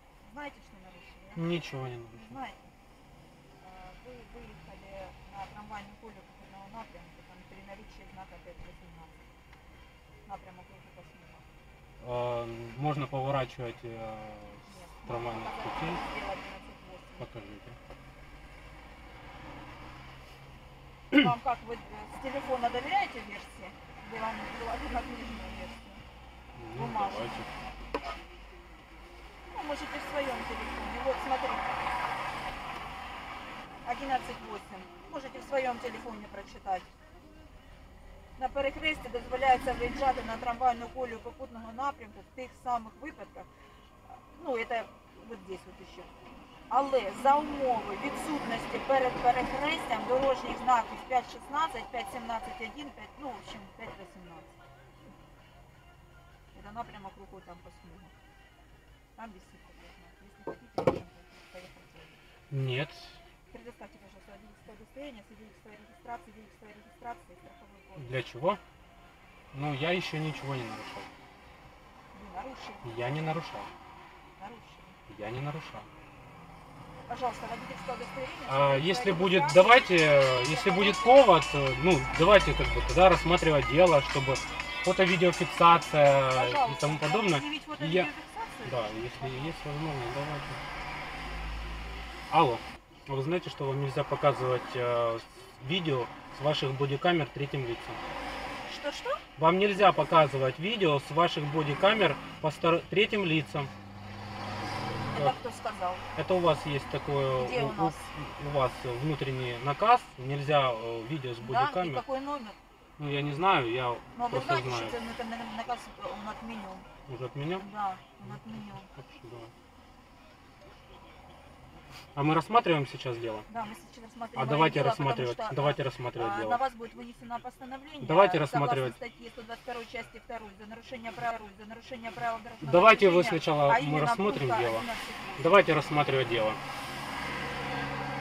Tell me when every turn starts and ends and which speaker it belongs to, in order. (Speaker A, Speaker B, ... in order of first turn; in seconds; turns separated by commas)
Speaker A: 0.2-2.7, Speaker B: 1.4-2.4, Speaker A: 3.6-9.2, Speaker A: 10.2-11.4, Speaker B: 12.0-16.1, Speaker A: 14.6-17.3, Speaker B: 17.2-17.8, Speaker A: 21.1-26.0, Speaker B: 26.6-27.5, Speaker A: 26.7-27.5, Speaker A: 29.5-31.8, Speaker A: 33.8-36.9, Speaker A: 38.4-43.5, Speaker A: 44.1-46.1, Speaker A: 46.7-54.5, Speaker A: 56.5-58.1, Speaker A: 59.2-62.2, Speaker B: 62.5-63.2, Speaker A: 63.5-68.1, Speaker B: 68.0-68.6, Speaker B: 69.5-71.1, Speaker A: 72.1-72.9, Speaker B: 72.8-73.7, Speaker A: 74.4-75.0, Speaker B: 75.1-75.9, Speaker A: 77.1-81.3, Speaker B: 78.5-88.1, Speaker A: 86.3-89.6, Speaker B: 88.6-90.6, Speaker B: 92.3-98.0, Speaker A: 98.6-99.2, Speaker B: 99.4-103.7, Speaker A: 105.1-106.1, Speaker B: 106.2-112.0, Speaker A: 107.3-108.1, Speaker A: 111.4-112.6, Speaker B: 113.0-115.0, Speaker A: 114.1-116.9, Speaker B: 117.1-117.7, Speaker A: 117.6-118.9, Speaker B: 118.2-119.5, Speaker B: 122.2-123.5, Speaker A: 123.5-135.6, Speaker B: 124.3-126.6, Speaker B: 128.0-129.0, Speaker B: 132.6-134.9, Speaker B: 135.4-136.6